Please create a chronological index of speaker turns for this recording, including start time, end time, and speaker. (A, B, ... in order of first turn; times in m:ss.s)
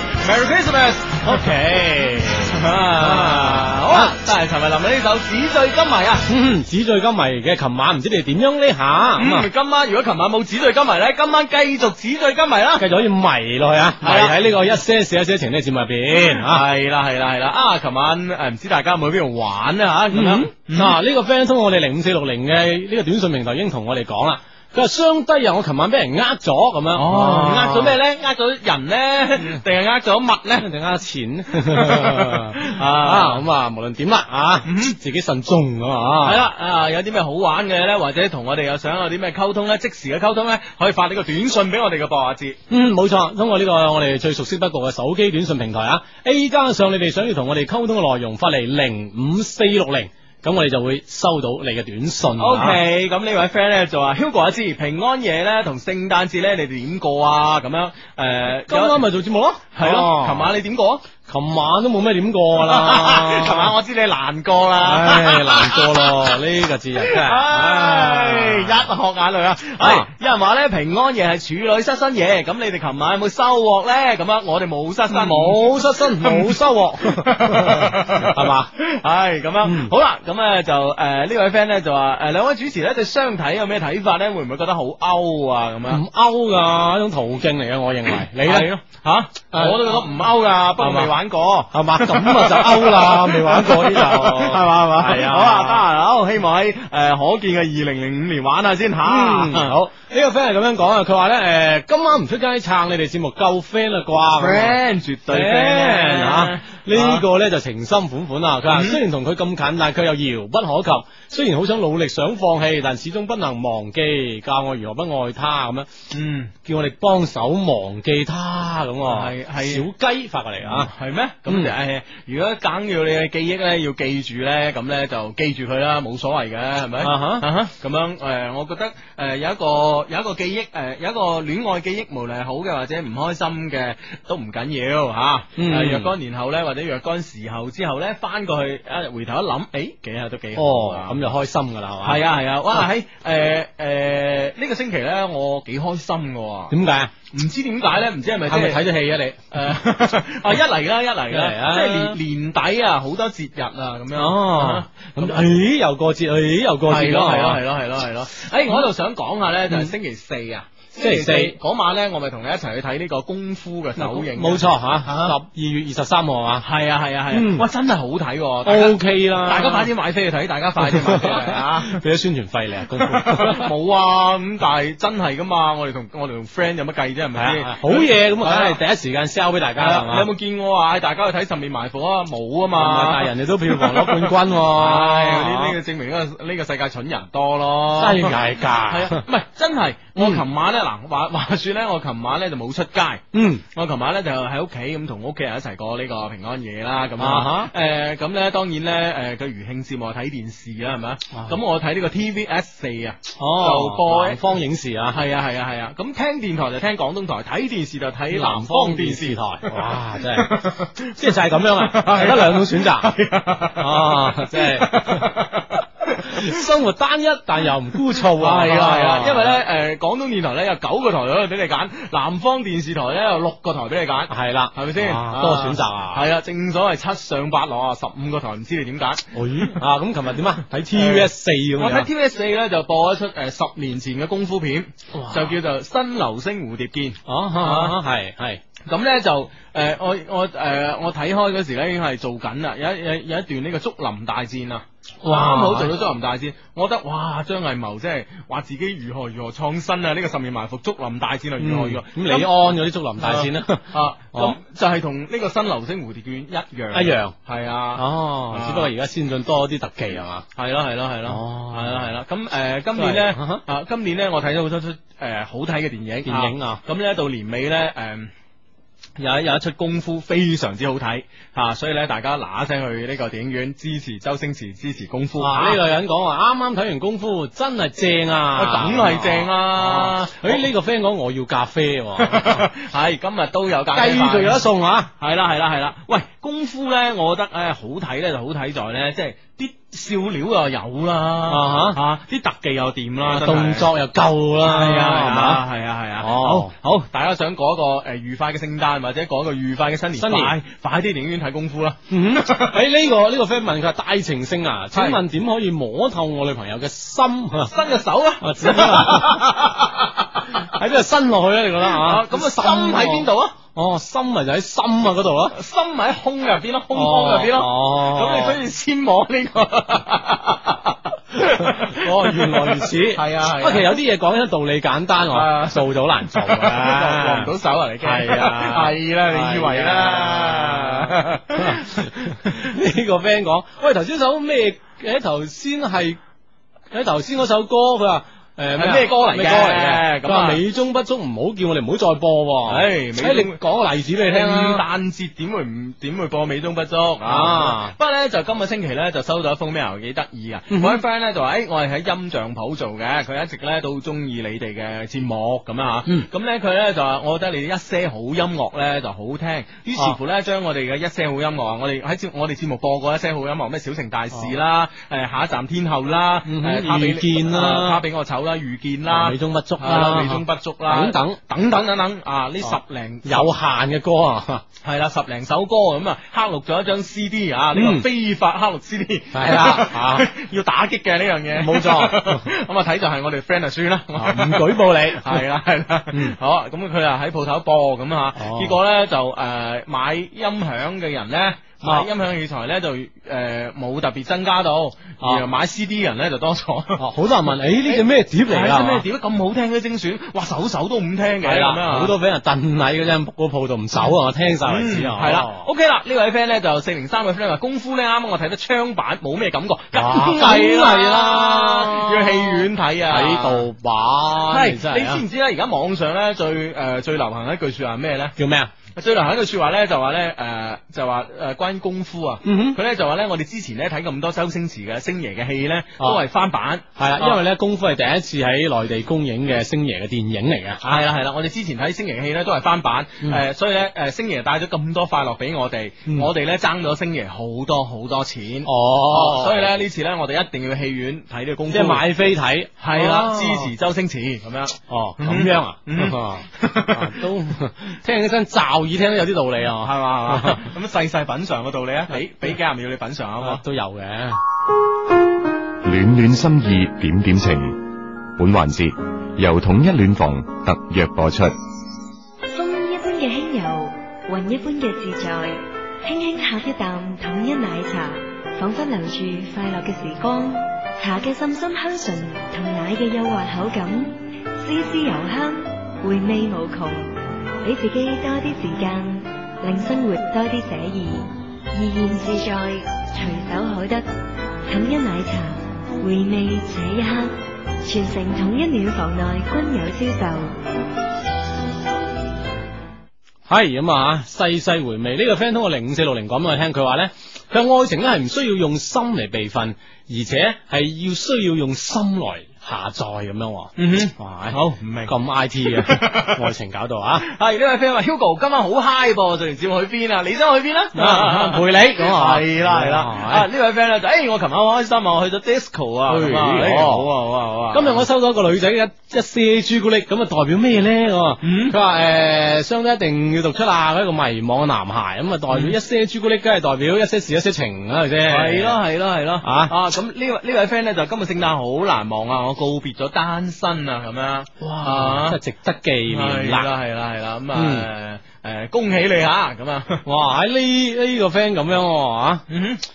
0:00.2-0:01.4 A
0:01.2-0:04.1 B
0:02.5-0:06.3 A
0:06.3-0:09.5 B
0:09.2-0:12.9 A
0:12.8-0:16.6 B
0:14.0-0:14.4 A
0:16.3-0:21.0 A
0:20.1-0:28.0 B
0:26.9-0:30.7 A
0:30.6-0:36.4 B
0:31.7-0:33.4 A
0:34.6-0:35.0 A
0:36.2-0:42.6 A
0:42.7-0:52.8 B
0:52.4-0:59.0 A
0:58.7-1:00.5 B
0:59.7-1:01.1 A
1:01.2-1:03.7 B
1:02.6-1:06.3 A
1:04.8-1:08.8 B
1:07.0-1:26.0 A
1:09.8-1:10.1 B
1:15.1-1:18.7 B
1:19.6-1:19.9 B
1:25.9-1:28.7 B
1:28.4-1:39.8 A
1:29.5-1:30.0 B
1:30.8-1:31.1 B
1:31.7-1:35.9 B
1:39.0-1:55.9 B
1:44.4-1:47.2 A
1:48.7-1:49.0 A
1:56.1-1:56.5 A
1:56.6-2:00.9 B
1:59.0-1:59.9 A
2:00.6-2:21.2 A
2:01.4-2:01.7 B
2:07.0-2:07.5 B
2:15.6-2:16.1 B
2:20.6-2:22.8 B
2:22.0-2:26.7 A
2:26.7-2:27.1 B
2:27.3-2:28.9 A
2:28.4-2:29.4 B
2:29.5-2:35.4 A
2:31.3-2:32.2 B
2:34.1-2:37.6 B
2:36.9-2:45.4 A
2:39.7-2:39.9 B
2:41.0-2:41.6 B
2:44.0-2:46.7 B
2:46.6-2:52.0 A
2:47.3-2:47.6 B
2:48.6-2:49.9 B
2:50.8-2:53.7 B
2:53.0-2:58.8 A
2:57.3-3:00.3 B
2:59.8-3:24.4 A
3:02.7-3:05.8 B
3:07.9-3:09.2 B
3:10.2-3:10.4 B
3:13.3-3:13.6 B
3:17.2-3:17.7 B
3:23.4-3:25.2 B
3:25.1-3:31.2 A
3:28.3-3:33.1 B
3:31.8-3:36.5 A
3:33.8-3:35.4 B
3:36.2-3:39.6 B
3:38.4-3:49.8 A
3:44.3-3:46.2 B
3:49.3-3:52.1 B
3:50.9-3:58.0 A
3:55.1-3:55.6 B
3:57.2-3:58.6 B
3:58.8-4:18.9 A
4:05.2-4:05.9 B
4:11.6-4:14.6 B
4:16.9-4:17.3 B
4:18.0-4:20.5 B
4:20.6-4:28.3 A
4:21.2-4:22.1 B
4:23.0-4:23.6 B
4:26.2-4:26.8 B
4:29.2-4:35.8 A
4:35.4-4:42.7 B
4:38.5-4:40.6 A
4:42.2-4:44.6 A
4:43.9-4:45.1 B
4:45.2-4:53.9 A
4:51.5-4:52.0 B
4:53.3-4:55.6 B
4:54.6-5:02.8 A
4:56.2-4:56.7 B
5:00.2-5:00.6 B
5:02.1-5:07.8 B
5:04.9-5:05.2 A
5:07.7-5:10.6 A
5:08.4-5:09.7 B
5:10.6-5:15.6 B
5:11.9-5:13.6 A
5:15.5-5:23.9 A
5:16.9-5:18.6 B
5:21.5-5:36.2 B
5:25.3-5:32.6 A
5:36.9-5:44.8 B
5:38.8-5:40.6 A
5:42.7-5:43.6 A
5:44.2-6:13.5 A
5:47.2-5:47.9 B
5:50.7-5:51.0 B
6:06.4-6:08.0 B
6:09.1-6:11.4 B
6:12.6-6:14.6 B
6:14.8-6:37.1 A
6:17.7-6:18.1 B
6:19.3-6:20.3 B
6:21.6-6:22.4 B
6:24.2-6:25.4 B
6:28.4-6:28.8 B
6:31.8-6:32.1 B
6:37.0-6:39.0 B
6:37.8-6:42.1 A
6:41.4-6:45.7 B
6:44.6-6:53.7 A
6:49.9-6:55.2 B
6:54.5-6:58.4 A
6:58.4-6:58.7 B
6:58.9-7:07.4 A
7:02.4-7:02.8 B
7:07.0-7:10.8 B
7:10.8-7:22.0 A
7:18.6-7:19.7 B
7:21.7-7:23.7 B
7:22.8-7:27.2 A
7:24.9-7:30.6 B
7:29.8-7:33.6 A
7:33.4-7:34.4 B
7:35.8-7:37.8 C
7:38.4-7:41.5 C
7:42.5-8:04.0 D
8:04.7-8:10.5 D
8:13.5-8:27.3 B
8:23.8-8:26.4 A
8:27.2-8:38.0 A
8:30.9-8:33.5 B
8:36.1-8:37.1 B
8:37.7-8:48.8 B
8:41.4-8:41.8 A
8:45.5-8:45.8 A
8:48.2-8:55.4 A
8:49.4-8:49.7 B
8:54.6-8:56.7 B
8:56.1-9:00.0 A
8:57.5-8:57.9 B
9:00.0-9:02.4 B
9:02.5-9:02.8 A